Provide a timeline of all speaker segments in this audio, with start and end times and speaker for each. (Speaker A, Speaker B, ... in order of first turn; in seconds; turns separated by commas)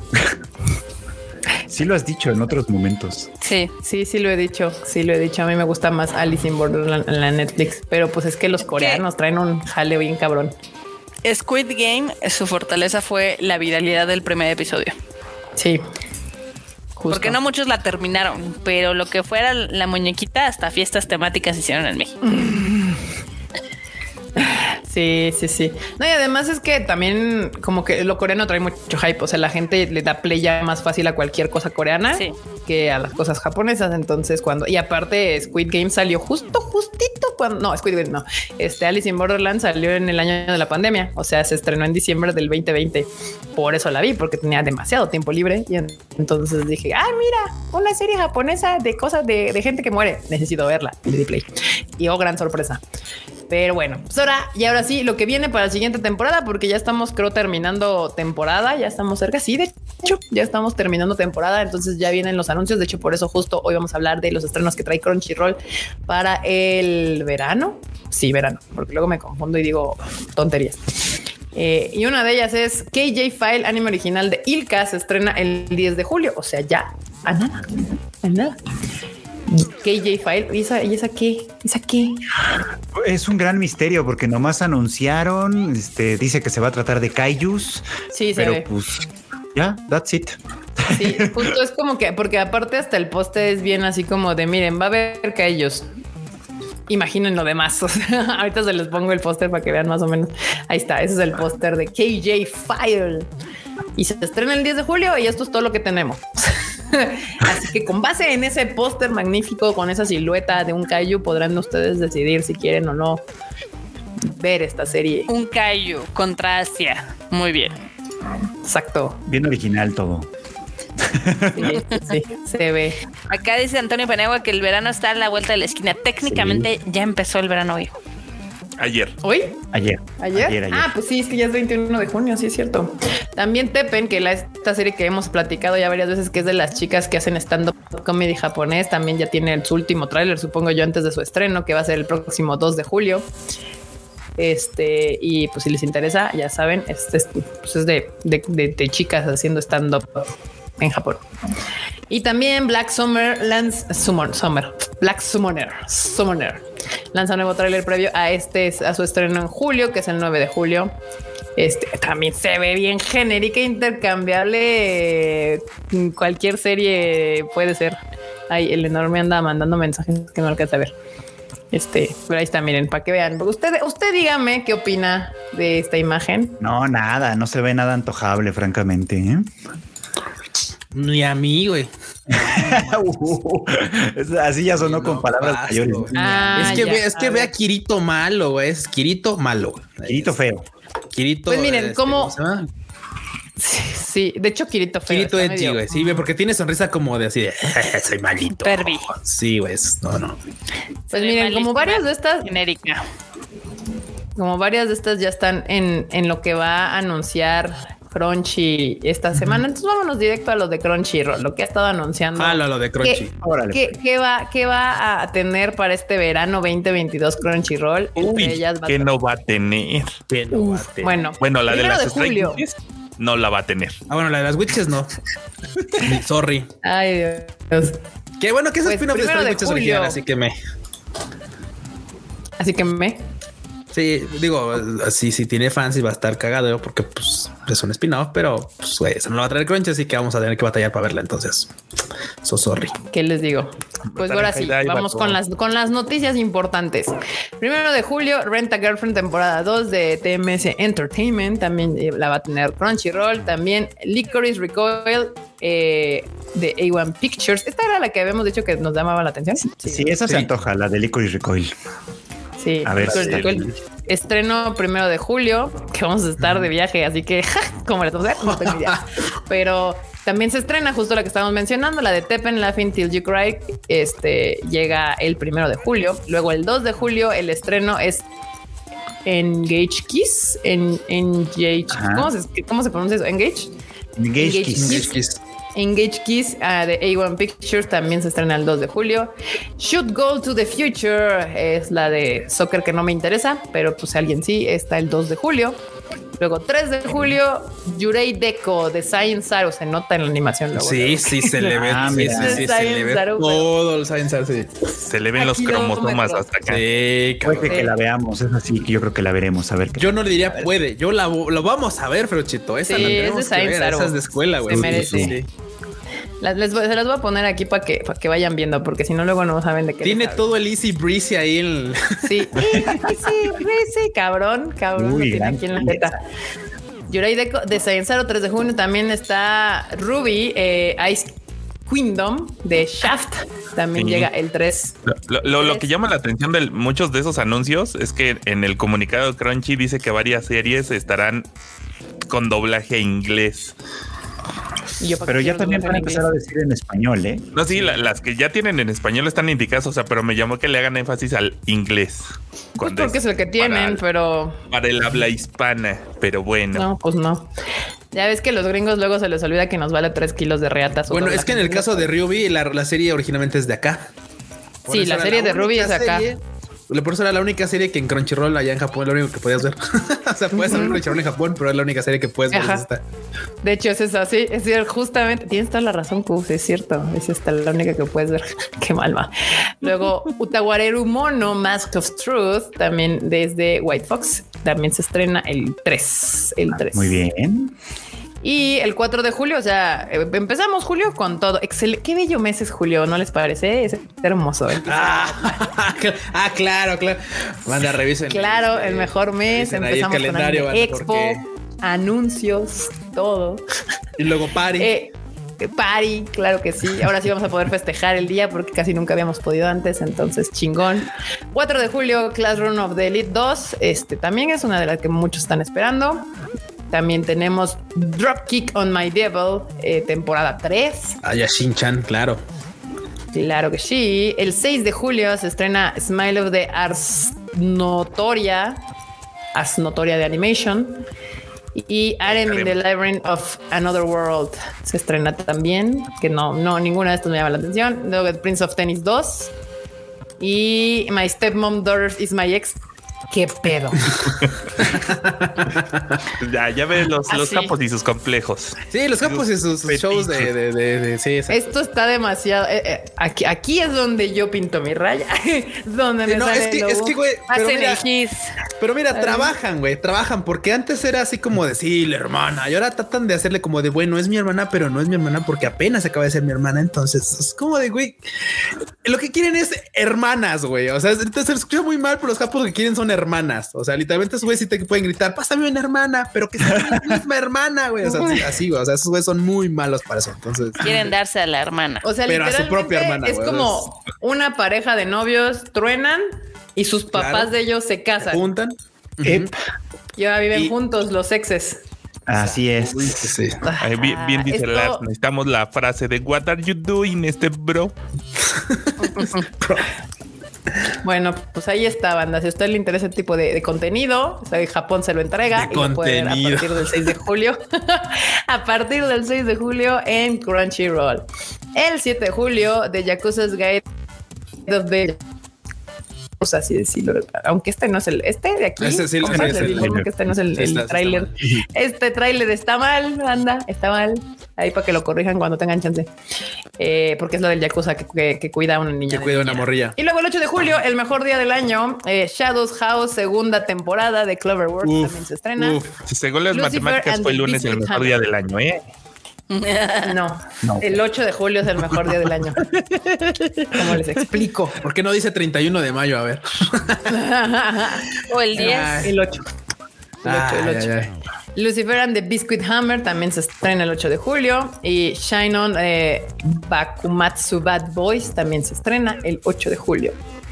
Speaker A: 1.7-3.3, Speaker B: 3.4-3.7, Speaker C: 3.8-10.5, Speaker B: 8.7-9.0, Speaker B: 11.2-14.9, Speaker C: 15.6-15.8, Speaker C: 17.0-17.4, Speaker B: 17.1-22.2, Speaker C: 22.2-23.0, Speaker C: 24.4-52.8, Speaker C: 53.5-70.8, Speaker C: 71.5-77.7, Speaker C: 78.2-78.6, Speaker C: 79.5-82.3, Speaker A: 82.9-91.5, Speaker C: 88.1-88.7, Speaker C: 90.9-95.8, Speaker C: 96.9-103.3, Speaker C: 104.0-113.2, Speaker C: 114.2-115.3, Speaker B: 115.3-117.8, Speaker C: 118.6-119.2, Speaker A: 119.3-120.3, Speaker A: 121.0-121.8, Speaker C: 121.5-123.0, Speaker B: 123.3-128.0, Speaker A: 126.2-126.7, Speaker D: 128.8-129.2, Speaker C: 129.2-129.6, Speaker A: 129.7-130.9, Speaker C: 130.2-143.3, Speaker C: 144.4-151.2, Speaker C: 152.1-161.0, Speaker C: 161.6-168.0, Speaker C: 168.5-170.9, Speaker C: 171.7-176.6, Speaker A: 176.6-179.5, Speaker E: 180.9-183.3, Speaker A: 182.3-187.0, Speaker E: 184.8-190.3, Speaker C: 186.2-187.5, Speaker A: 190.1-190.7, Speaker E: 191.1-192.7, Speaker C: 191.5-192.3, Speaker C: 193.6-196.2, Speaker E: 195.1-200.4, Speaker B: 198.6-199.1, Speaker B: 201.1-203.0, Speaker C: 201.1-202.5, Speaker C: 204.4-219.1, Speaker E: 212.3-213.3, Speaker A: 213.4-213.9, Speaker D: 218.2-220.2, Speaker E: 220.3-221.2, Speaker C: 220.5-222.6, Speaker D: 221.4-224.0, Speaker E: 224.1-225.1, Speaker E: 226.0-226.7, Speaker C: 226.8-228.0, Speaker E: 228.4-230.6, Speaker C: 228.8-230.2, Speaker C: 232.6-233.2, Speaker E: 233.9-241.7, Speaker E: 242.4-243.0, Speaker C: 243.1-260.1, Speaker D: 244.1-245.4, Speaker A: 259.8-261.7, Speaker C: 262.6-278.2, Speaker A: 262.8-263.6, Speaker D: 263.0-263.4, Speaker E: 266.4-266.7, Speaker E: 268.4-269.0, Speaker C: 279.2-283.7, Speaker A: 281.9-282.3, Speaker A: 284.2-285.1, Speaker C: 284.4-285.2, Speaker E: 284.8-285.4, Speaker C: 285.8-295.8, Speaker C: 296.4-303.7, Speaker E: 300.8-304.7, Speaker A: 301.8-302.7, Speaker D: 305.1-306.8, Speaker C: 305.4-306.4, Speaker E: 306.7-307.9, Speaker A: 307.4-310.7, Speaker C: 307.7-307.9, Speaker E: 310.0-315.5, Speaker C: 312.9-315.4, Speaker A: 313.0-313.2, Speaker A: 314.8-315.4, Speaker C: 316.4-320.5, Speaker E: 320.0-322.7, Speaker C: 322.2-326.2, Speaker A: 325.0-326.1, Speaker C: 327.1-331.3, Speaker C: 331.9-335.0, Speaker D: 334.0-334.3, Speaker D: 335.1-341.5, Speaker C: 335.5-335.9, Speaker D: 342.3-343.7, Speaker C: 345.0-346.2, Speaker A: 345.3-347.5, Speaker D: 347.5-354.0, Speaker C: 352.8-354.6, Speaker D: 354.7-356.9, Speaker C: 356.7-357.5, Speaker C: 358.1-362.1, Speaker E: 361.1-364.1, Speaker E: 364.9-373.0, Speaker C: 364.9-366.3, Speaker C: 370.5-371.0, Speaker C: 372.5-372.8, Speaker C: 373.6-387.2, Speaker A: 386.7-387.7, Speaker C: 388.4-395.6, Speaker E: 394.8-401.4, Speaker C: 398.3-403.6, Speaker E: 404.2-404.9, Speaker C: 404.8-416.3, Speaker C: 416.9-421.2, Speaker E: 421.2-422.4, Speaker C: 423.3-428.8, Speaker C: 429.5-431.0, Speaker C: 431.7-439.5, Speaker D: 432.3-432.8, Speaker C: 440.4-442.8, Speaker C: 443.3-444.2, Speaker E: 444.8-446.2, Speaker D: 446.4-448.8, Speaker B: 447.3-447.7, Speaker E: 448.9-451.8, Speaker A: 449.9-450.5, Speaker C: 451.5-457.1, Speaker E: 456.2-458.0, Speaker B: 457.5-458.5, Speaker E: 458.8-468.2, Speaker C: 459.1-459.5, Speaker E: 469.0-481.0, Speaker C: 478.1-478.4, Speaker B: 480.8-482.1, Speaker C: 482.0-488.5, Speaker E: 482.3-483.9, Speaker E: 487.1-487.5, Speaker E: 488.2-489.5, Speaker C: 490.2-491.8, Speaker A: 492.3-493.4, Speaker E: 492.3-493.6, Speaker C: 493.6-495.0, Speaker D: 493.8-497.9, Speaker E: 498.4-499.9, Speaker C: 501.0-513.8, Speaker E: 505.5-507.1, Speaker C: 514.7-515.2, Speaker C: 516.4-526.1, Speaker E: 518.8-520.0, Speaker A: 519.3-520.1, Speaker E: 520.5-521.4, Speaker C: 526.8-535.8, Speaker E: 529.1-530.0, Speaker E: 534.8-536.0, Speaker D: 536.1-538.9, Speaker C: 536.5-538.2, Speaker B: 539.5-540.2, Speaker C: 540.1-542.6, Speaker A: 540.6-541.0, Speaker E: 542.6-547.2, Speaker C: 543.7-544.8, Speaker C: 547.1-549.5, Speaker B: 548.3-549.1, Speaker E: 548.5-549.1, Speaker C: 550.2-550.9, Speaker E: 550.2-551.1, Speaker C: 551.5-560.1